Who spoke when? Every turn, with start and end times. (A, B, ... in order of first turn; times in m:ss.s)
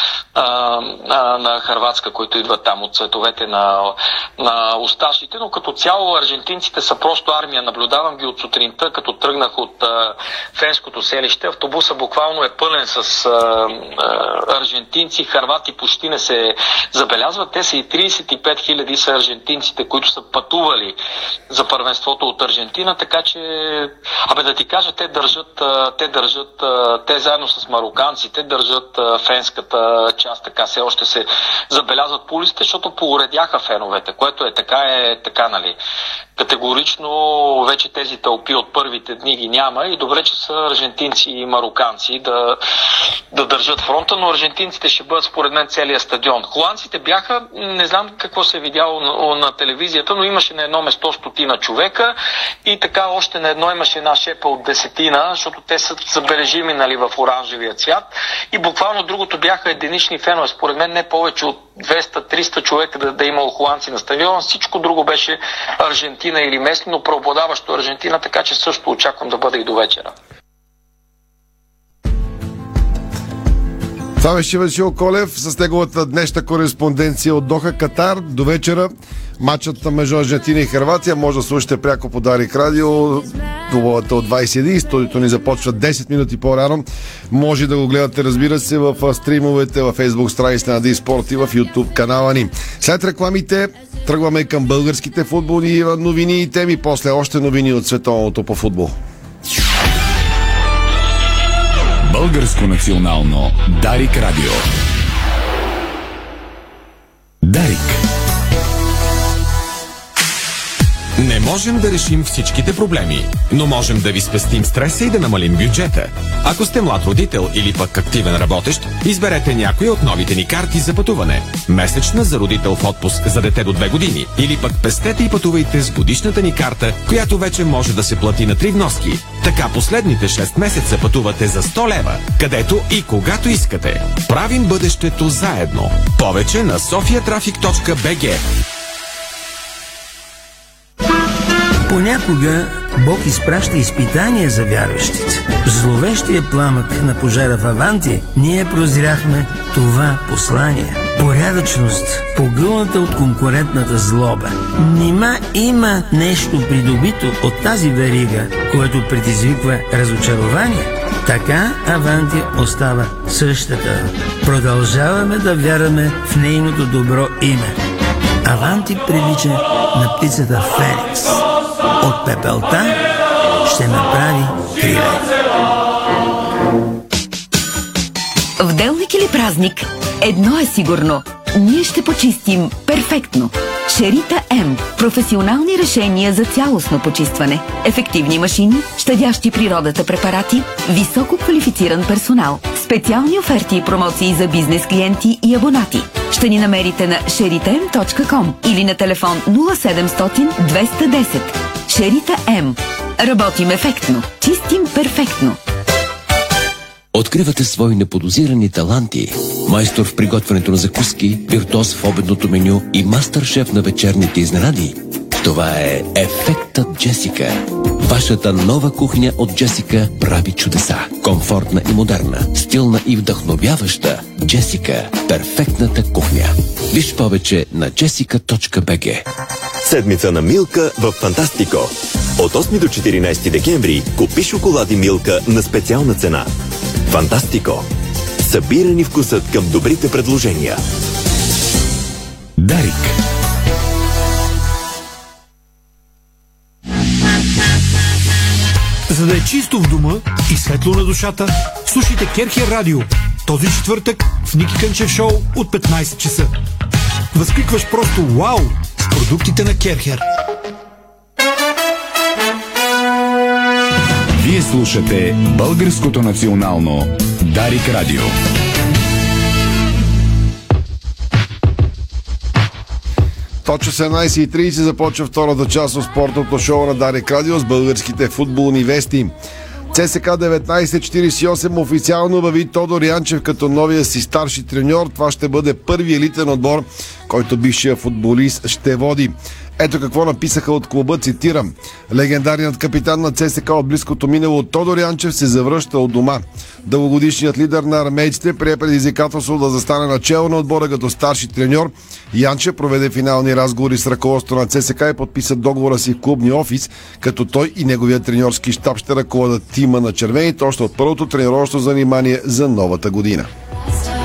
0:00.4-0:21.0 A
0:21.5-0:35.8 A
0:36.4-0:42.6 A
0:43.3-1:10.1 A
1:14.2-1:39.0 B
1:42.0-1:44.6 C
1:47.4-1:48.0 C
1:51.2-2:18.4 D
2:21.9-2:47.8 E
2:48.4-2:51.4 E
2:52.0-2:53.0 E
2:53.6-2:55.3 E
2:58.6-3:25.6 F
3:27.1-3:49.2 G
3:49.8-3:56.5 H
3:57.1-3:57.9 H
3:58.4-4:00.8 H
4:02.6-4:03.2 C
4:09.1-4:16.5 I
4:17.3-4:20.2 I
4:24.4-4:28.3 C
4:33.6-4:39.3 B
4:39.9-5:13.5 B